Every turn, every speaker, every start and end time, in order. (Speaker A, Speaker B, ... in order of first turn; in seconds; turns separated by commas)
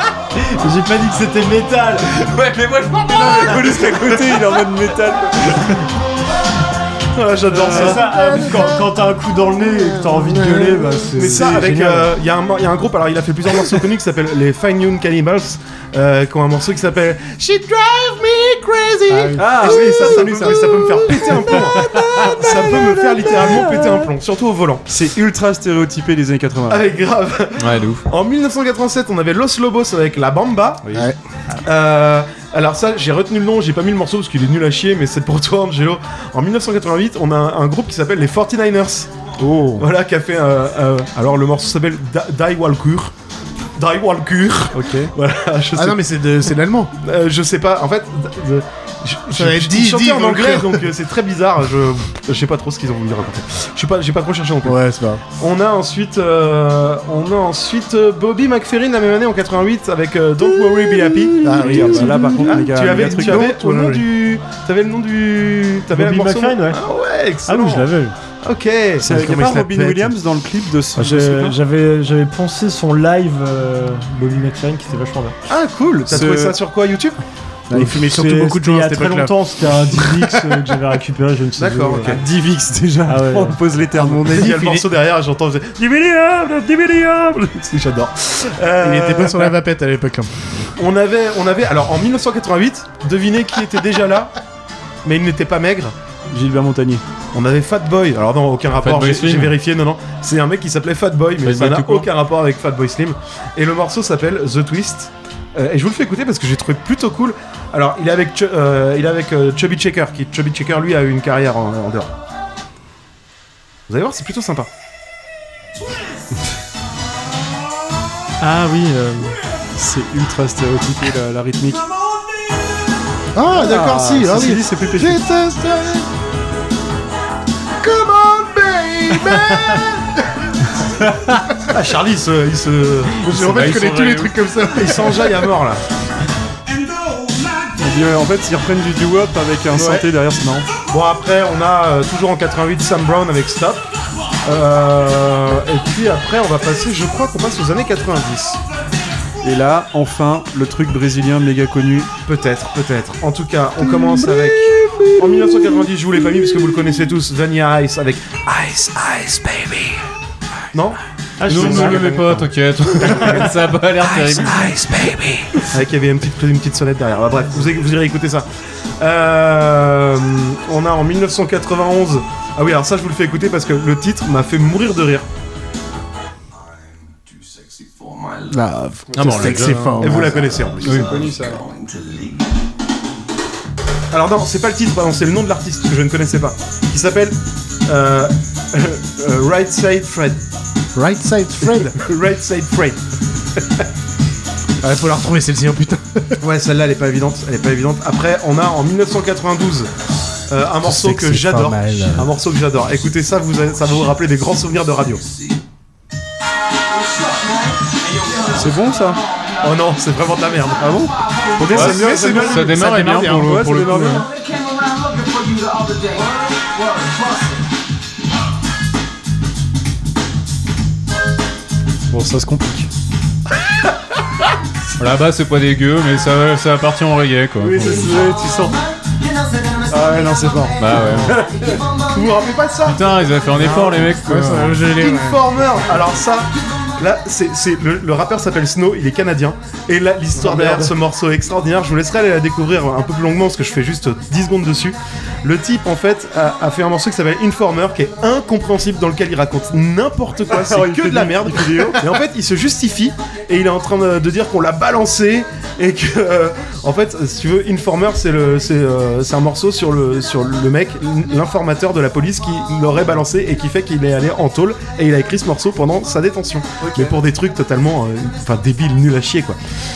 Speaker A: 0.3-2.2, Speaker B: 2.2-4.0, Speaker C: 3.0-5.8, Speaker D: 7.1-8.7, Speaker C: 7.5-8.0, Speaker A: 7.6-12.1, Speaker C: 10.8-11.7, Speaker D: 11.2-24.9, Speaker A: 19.1-20.0, Speaker C: 19.4-23.9, Speaker E: 19.6-21.7, Speaker E: 22.3-23.2, Speaker C: 24.9-26.9, Speaker D: 26.7-30.9, Speaker B: 27.6-28.1, Speaker C: 30.9-31.1, Speaker D: 31.6-39.1, Speaker C: 39.4-39.9, Speaker D: 39.8-43.1, Speaker D: 43.8-46.1, Speaker C: 44.7-45.1, Speaker E: 45.7-46.9, Speaker D: 47.0-54.8, Speaker E: 49.3-50.9, Speaker E: 54.6-55.2, Speaker D: 55.4-67.9, Speaker E: 61.4-64.1, Speaker C: 61.5-63.5, Speaker A: 65.9-66.8, Speaker A: 67.5-68.1, Speaker D: 68.4-69.2, Speaker C: 69.0-71.6, Speaker E: 69.0-70.1, Speaker A: 71.0-75.4, Speaker D: 75.5-77.2, Speaker C: 76.0-76.6, Speaker E: 77.7-80.3, Speaker A: 78.0-82.2, Speaker D: 81.6-82.2, Speaker C: 82.0-84.5, Speaker A: 83.1-83.6, Speaker E: 83.9-84.9, Speaker D: 84.3-89.5, Speaker E: 88.8-90.3, Speaker D: 90.8-94.4, Speaker D: 95.0-95.9, Speaker C: 96.3-97.0, Speaker D: 97.3-112.1, Speaker B: 98.8-99.6, Speaker B: 101.4-102.1, Speaker D: 113.9-114.7, Speaker A: 118.4-119.4, Speaker C: 119.8-121.9, Speaker E: 123.3-126.1, Speaker C: 123.6-125.2, Speaker E: 127.8-130.1, Speaker D: 131.7-133.8, Speaker E: 133.2-135.5, Speaker B: 133.4-134.4, Speaker D: 134.7-135.8, Speaker C: 137.8-140.7, Speaker D: 139.7-140.1, Speaker D: 140.9-143.8, Speaker D: 144.4-148.6, Speaker C: 149.4-152.1, Speaker D: 152.2-160.0, Speaker C: 153.9-155.7, Speaker D: 160.7-163.5, Speaker A: 161.4-162.2, Speaker B: 161.5-165.3, Speaker A: 163.1-163.5, Speaker D: 164.0-168.5, Speaker D: 169.0-175.3, Speaker E: 178.5-180.7, Speaker B: 179.2-181.4, Speaker D: 179.4-181.1, Speaker C: 180.9-181.7, Speaker D: 184.1-190.4, Speaker E: 190.9-192.0, Speaker D: 191.7-193.0, Speaker D: 193.6-193.9, Speaker E: 194.8-196.4, Speaker D: 196.4-199.9, Speaker D: 200.5-205.2, Speaker E: 200.8-202.3, Speaker C: 208.5-209.2, Speaker D: 209.6-210.9, Speaker C: 210.8-214.3, Speaker E: 211.7-213.4, Speaker B: 211.7-214.3, Speaker C: 222.1-222.9, Speaker B: 225.0-228.1, Speaker D: 227.6-228.4, Speaker C: 227.7-228.8, Speaker C: 229.9-231.4, Speaker B: 230.8-231.3, Speaker D: 231.9-233.0, Speaker B: 232.8-234.8, Speaker D: 233.6-234.1, Speaker E: 234.2-235.4, Speaker D: 234.9-269.6, Speaker E: 240.4-240.8, Speaker C: 250.5-252.0, Speaker C: 266.8-267.2